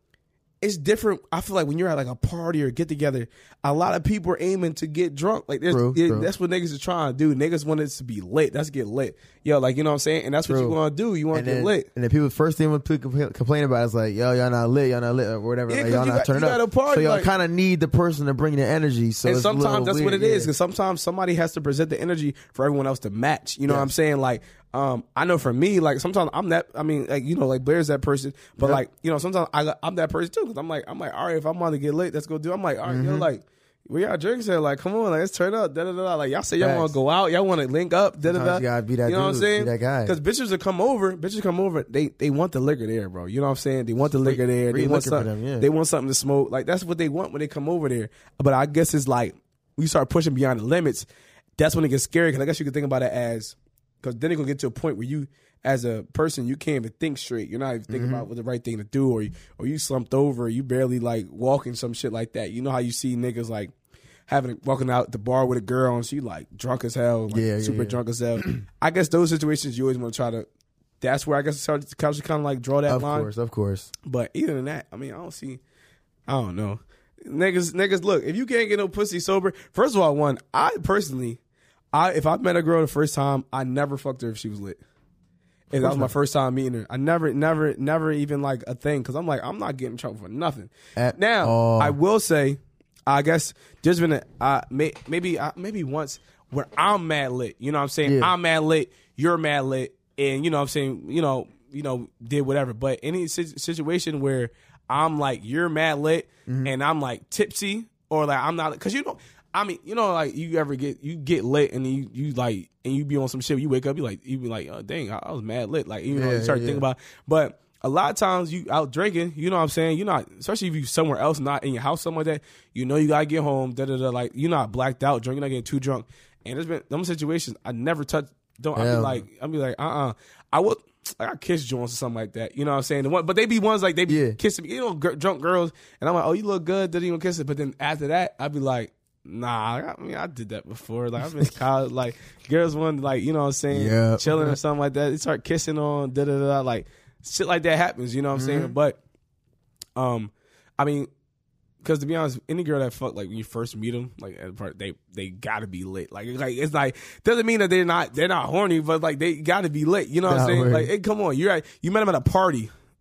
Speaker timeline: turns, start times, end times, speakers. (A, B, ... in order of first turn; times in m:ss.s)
0:00.6-0:11.9 A
0:05.7-0:06.3 B
0:10.5-0:10.8 B
0:11.3-0:20.5 B
0:15.7-0:17.3 A
0:19.2-1:03.7 A
0:32.9-0:33.3 B
0:36.6-0:37.0 B
0:38.2-0:40.2 B
0:44.1-0:45.7 B
0:57.9-0:58.3 B
1:04.3-1:10.5 A
1:07.3-1:08.6 B
1:11.0-1:13.3 A
1:12.9-1:13.9 B
1:14.1-1:15.6 A
1:16.3-1:21.4 A
1:21.9-1:24.8 A
1:25.7-2:29.0 A
1:25.8-1:26.1 B
1:31.0-1:32.0 B
1:38.0-1:38.3 B
1:46.5-1:46.7 B
1:56.1-1:56.8 B
2:08.8-2:09.2 B
2:14.1-2:14.4 B
2:23.7-2:24.6 B
2:28.3-2:28.7 B
2:30.0-2:31.1 A
2:31.8-2:42.7 A
2:40.3-2:40.9 B